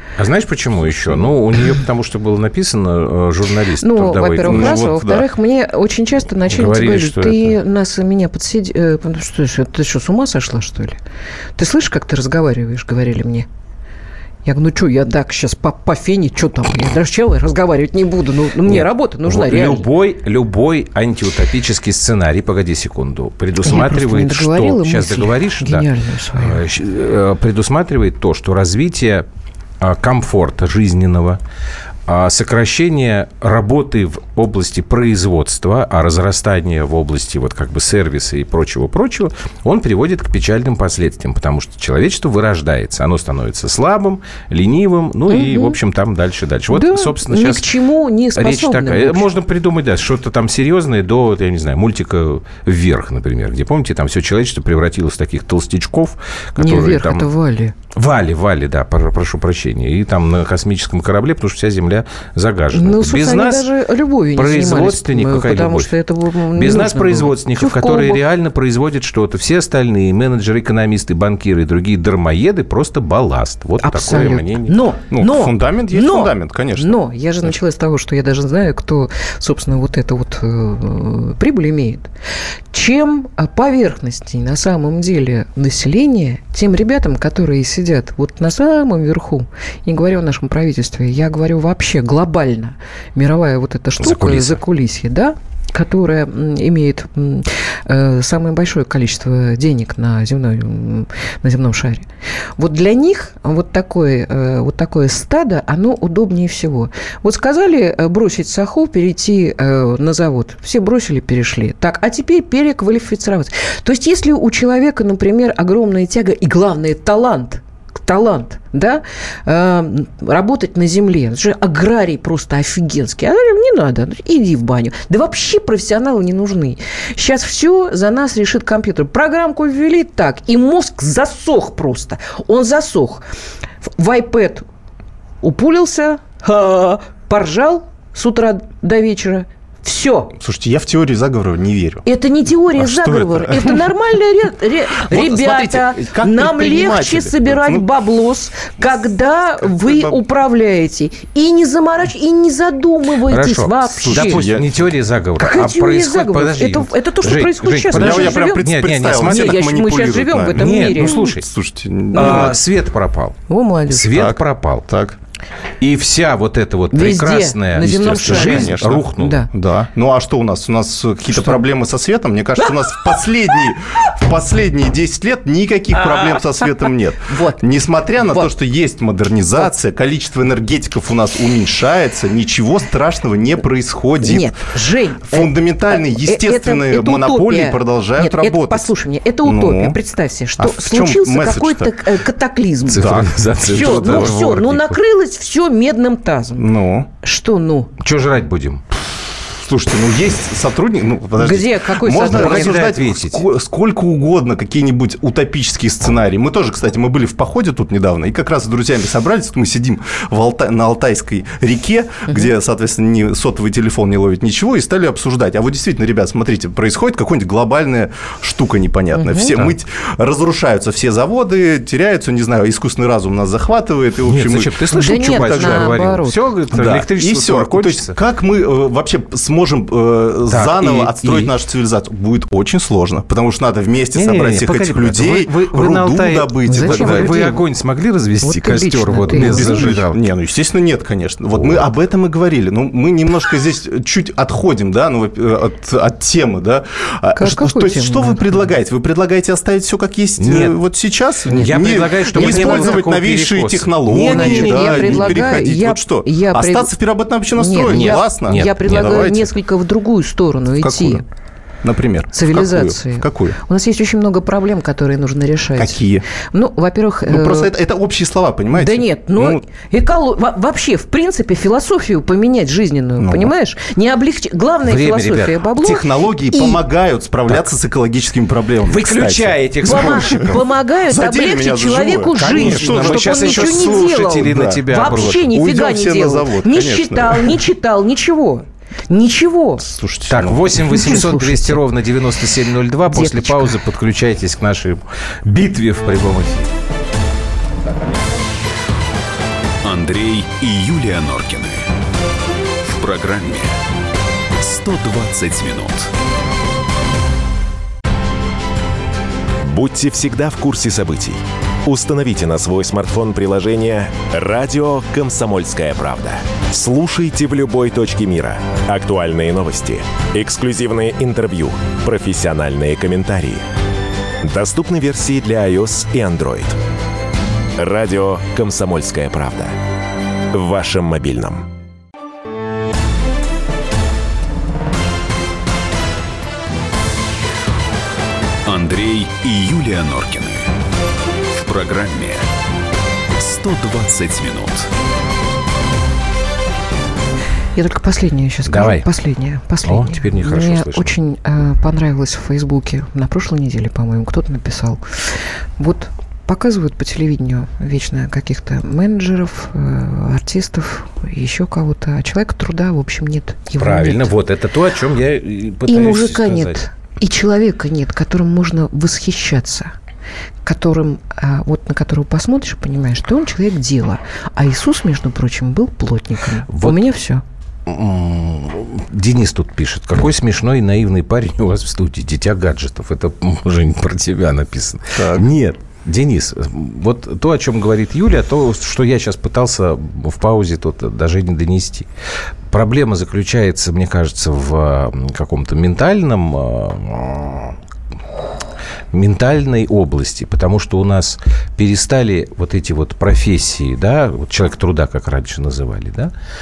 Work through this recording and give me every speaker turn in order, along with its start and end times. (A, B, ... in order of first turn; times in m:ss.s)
0:00.2-0:04.8 A
0:03.8-0:11.0 B
0:04.4-0:05.3 C
0:06.5-0:07.6 A
0:11.6-0:13.5 B
0:14.4-0:19.9 B
0:18.6-0:29.2 A
0:23.6-0:26.6 B
0:29.8-0:31.4 A
0:32.1-0:47.7 A
0:45.3-0:45.8 B
0:46.7-0:49.3 B
0:48.4-0:57.3 A
0:56.6-0:57.7 B
0:57.9-1:03.6 A
1:02.7-1:08.2 B
1:04.3-1:05.9 A
1:06.5-1:14.8 A
1:13.8-1:22.1 B
1:15.1-1:17.0 C
1:22.7-1:42.1 B
1:34.0-1:34.6 A
1:42.6-2:13.2 B
2:13.8-2:14.7 B
2:15.4-2:20.3 B
2:20.4-2:22.0 C
2:22.0-2:34.5 B
2:22.8-2:23.8 C
2:24.9-2:27.9 C
2:29.6-2:30.2 C
2:33.2-2:39.6 A
2:34.0-2:34.8 C
2:35.4-2:41.2 B
2:37.9-2:42.6 C
2:40.6-2:41.4 A
2:42.1-2:43.4 A
2:42.1-2:42.5 B
2:43.5-2:44.1 B
2:43.9-2:44.9 A
2:44.1-2:45.2 C
2:45.8-2:49.5 A
2:46.9-2:49.5 B
2:47.8-3:04.6 C
2:57.3-2:57.6 B
2:58.2-2:58.5 B
3:04.2-3:16.7 B
3:05.3-3:08.9 C
3:09.4-3:10.0 C
3:10.6-3:12.1 C
3:12.9-3:15.0 A
3:12.9-3:14.4 C
3:16.6-3:17.1 C
3:17.2-3:17.9 B
3:18.0-3:18.8 A
3:19.2-3:45.9 C
3:21.4-3:22.8 B
3:22.1-3:23.4 A
3:39.1-3:39.6 B
3:44.2-3:48.1 A
3:44.9-3:46.4 B
3:46.7-3:57.5 C
3:50.5-3:51.5 A
3:54.1-4:00.2 A
3:56.7-3:57.6 B
3:58.4-4:00.0 B
3:59.3-4:19.5 C
4:07.4-4:08.6 B
4:10.4-4:10.8 A
4:11.5-4:15.6 A
4:12.2-4:13.0 B
4:14.2-4:16.9 B
4:17.5-4:21.2 B
4:17.8-4:19.2 A
4:20.8-4:21.2 C
4:21.8-4:23.6 C
4:22.3-4:27.7 B
4:25.7-4:26.2 C
4:27.2-4:29.6 C
4:28.7-4:36.8 B
4:33.2-4:33.5 C
4:34.8-4:35.6 A
4:35.8-4:47.6 C
4:38.9-4:40.6 A
4:39.8-4:49.9 B
4:42.4-4:45.6 A
4:49.8-4:50.9 C
4:50.3-4:56.7 A
4:50.8-4:51.8 B
4:53.1-4:53.8 B
4:59.8-5:01.8 D
5:02.8-5:03.8 D
5:04.6-5:06.1 D
5:09.6-5:23.6 E
5:24.4-5:26.8 E
5:27.7-5:29.8 E
5:30.5-5:31.7 E
5:38.6-5:40.7 D
5:41.5-5:42.5 D
5:43.4-5:44.9 D
5:47.8-6:04.3 B
5:48.7-5:49.1 A
5:49.8-5:51.2 A
6:03.8-6:06.8 A
6:05.9-6:09.9 B
6:10.6-6:17.4 B
6:16.7-6:17.0 A
6:17.9-6:32.1 A
6:25.1-6:25.4 C
6:32.7-6:37.8 A
6:39.1-6:46.3 A